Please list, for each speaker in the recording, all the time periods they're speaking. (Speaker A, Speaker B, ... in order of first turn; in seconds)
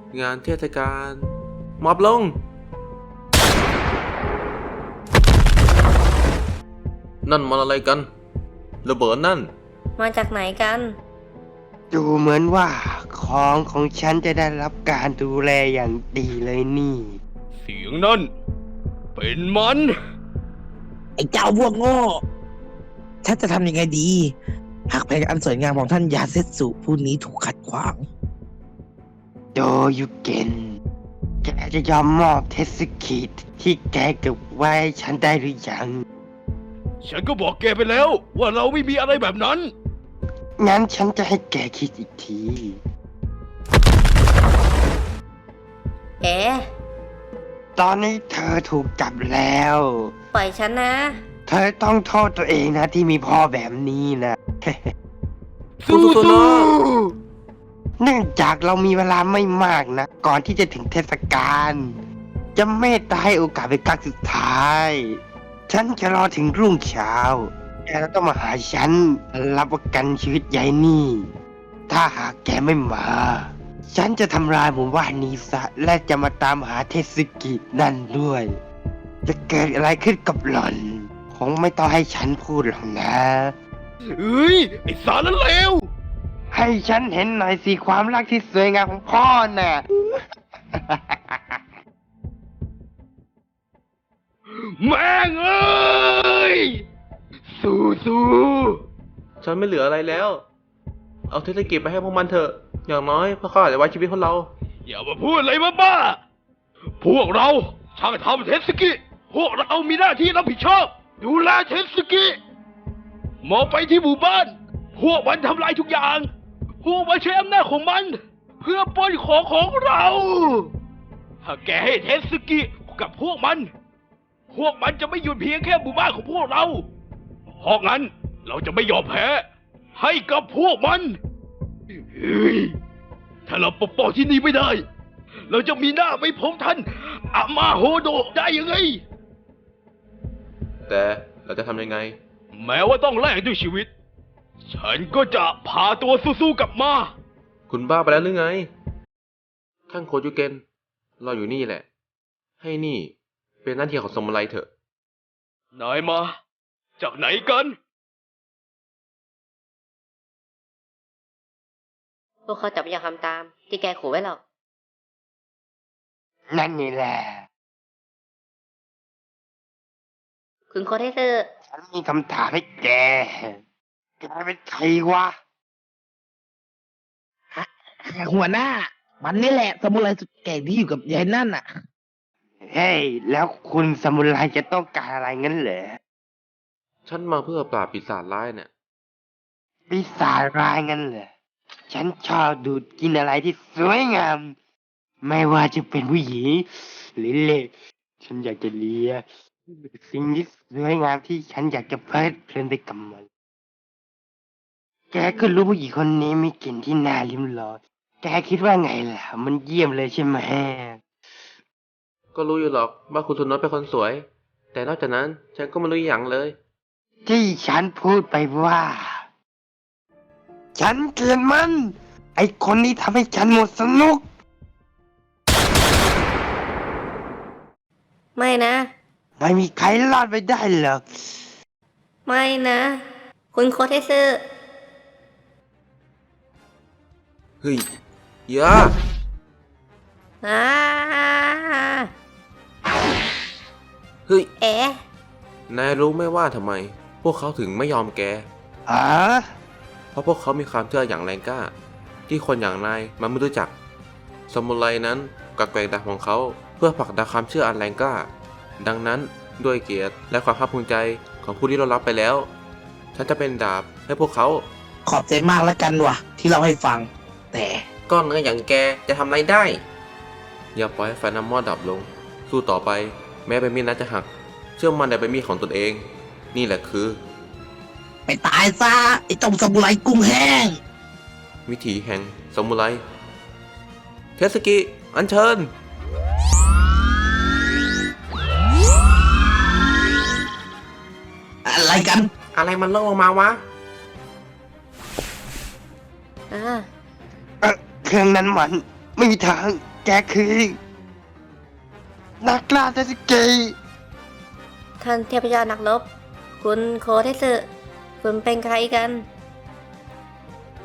Speaker A: 0.1-2.4, 7.2-8.1, 8.8-9.5, 55.9-56.7, 99.4-100.4, 101.3-104.5, 140.9-142.2, 147.7-148.7, 149.9-150.6, 151.2-151.8, 152.6-153.1, 153.6-154.7, 187.1-188.7, 212.3-216.6, 238.5-238.9, 245.7-248.5, 250.1-251.7, 252.3-253.7, 254.5-262.5, 263.1-264.6, 268.1-269.8, 270.7-277.2, 281.7-283.0, 284.4-285.7, 292.5-293.6
Speaker B: 10.0-10.9, 46.2-46.6, 50.3-51.2, 162.4-164.4, 170.7-171.5, 228.3-228.9, 232.3-233.0, 233.5-234.4, 240.4-242.1, 244.6-245.0, 296.5-296.9, 305.0-306.1, 306.6-307.7, 308.2-309.2
Speaker C: 11.9-17.2, 29.5-30.8, 31.4-36.0, 40.6-42.8, 47.8-50.1, 51.5-54.9, 58.0-62.0, 62.5-71.3, 71.9-78.5, 79.2-83.5, 86.5-90.1, 90.7-91.6, 166.5-167.4, 171.7-173.6, 174.2-175.3, 182.6-186.0, 189.9-191.3, 191.9-194.5, 195.2-197.7, 198.2-203.2, 205.1-211.0, 217.2-219.2, 220.7-224.2, 229.4-231.3, 248.9-249.5, 297.6-300.8, 302.4-303.7
Speaker D: 17.6-18.3, 19.1-19.9, 37.0-39.7, 55.8-57.1, 84.2-85.9, 94.6-96.8, 97.6-98.8, 104.8-106.2, 107.0-112.4, 113.4-116.3, 116.8-120.7, 121.4-123.7, 124.5-126.8, 127.6-131.2, 132.1-132.8, 133.5-134.8, 135.5-139.0, 142.5-143.9, 144.7-147.1, 155.7-156.3, 157.0-157.8
Speaker E: 21.2-22.2, 23.2-24.3, 24.9-28.1, 177.5-181.6, 265.1-267.8, 278.2-280.8, 291.6-292.3